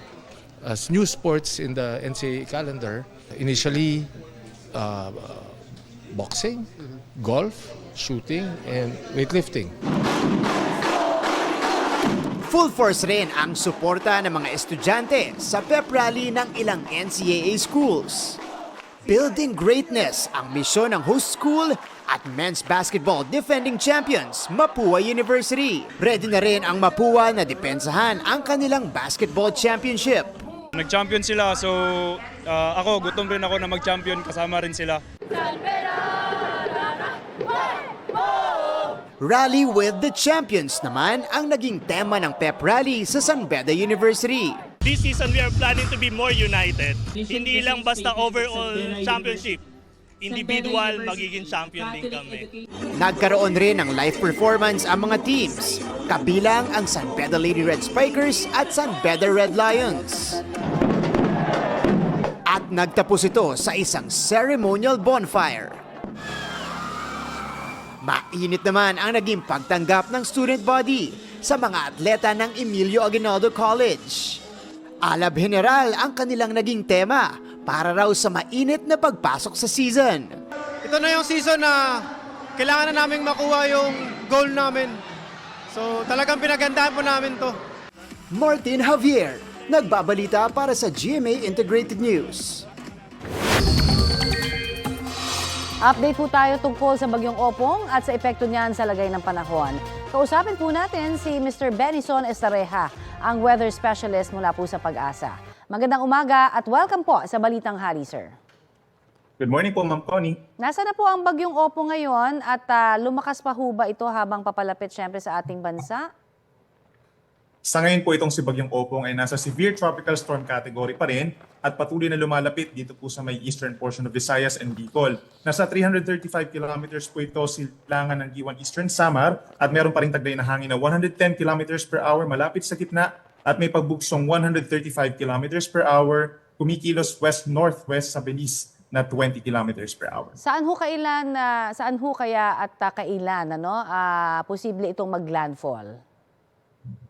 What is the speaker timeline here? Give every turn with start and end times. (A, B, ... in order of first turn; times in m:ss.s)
0:00.6-0:04.1 A
0:04.7-0:05.6 A
0:06.1-0:09.7 A
0:12.4-0:18.4 B
0:19.0-0:30.3 B
0:30.7-0:35.0 C
0:39.2-0:44.6 B
0:44.8-0:49.6 D
0:50.2-0:52.5 D
0:52.9-1:00.4 B
1:02.4-1:05.8 B
1:08.0-1:14.4 B
1:15.0-1:20.4 B
1:20.8-1:22.0 E
1:22.6-1:25.0 E
1:25.7-1:27.6 E
1:28.3-1:32.6 B
1:35.8-1:48.4 F
1:49.4-1:50.4 G
1:50.6-1:56.1 F
1:57.6-2:20.3 G
2:20.4-2:26.0 F